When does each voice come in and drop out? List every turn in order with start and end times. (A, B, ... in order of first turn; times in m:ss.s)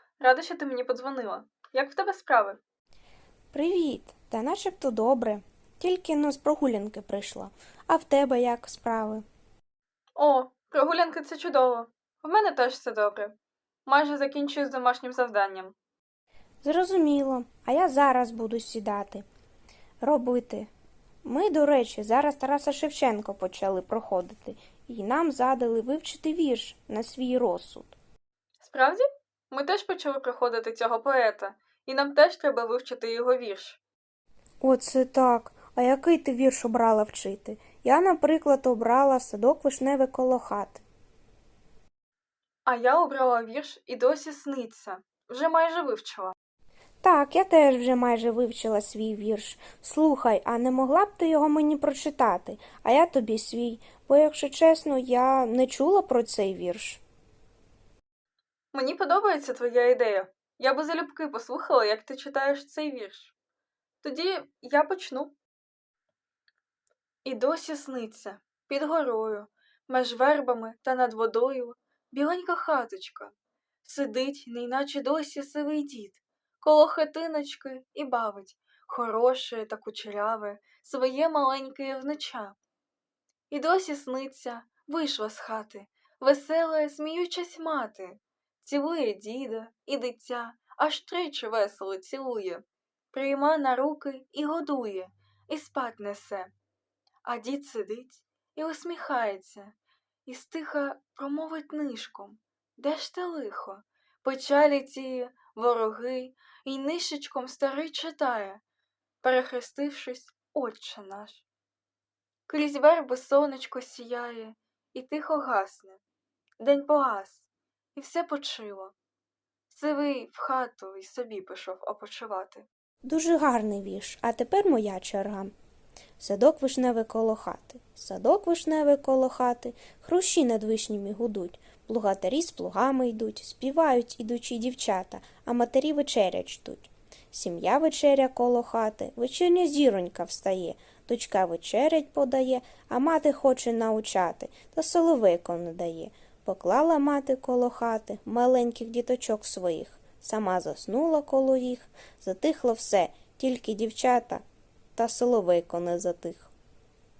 0:00.2-0:02.6 A
0:03.5-0:09.2 B
0:10.2-0:13.3 A
0:13.8-0:15.7 A
0:16.6-0:19.2 B
0:20.0-0:20.7 B
0:21.2-0:28.0 B
0:28.6-0:33.8 A
0:34.6-0:40.8 B
0:42.6-0:46.3 A
0:47.0-0:57.0 B
0:58.7-1:03.3 A
1:04.0-1:05.3 A
1:07.2-1:22.6 A
1:23.5-1:36.5 A
1:37.2-1:39.7 A
1:40.2-1:48.6 A
1:49.2-1:51.4 A
1:52.5-1:56.0 A
1:56.6-1:58.9 A
1:59.7-2:02.7 A
2:03.0-2:05.5 B
2:06.2-2:34.4 B
2:35.0-2:36.5 B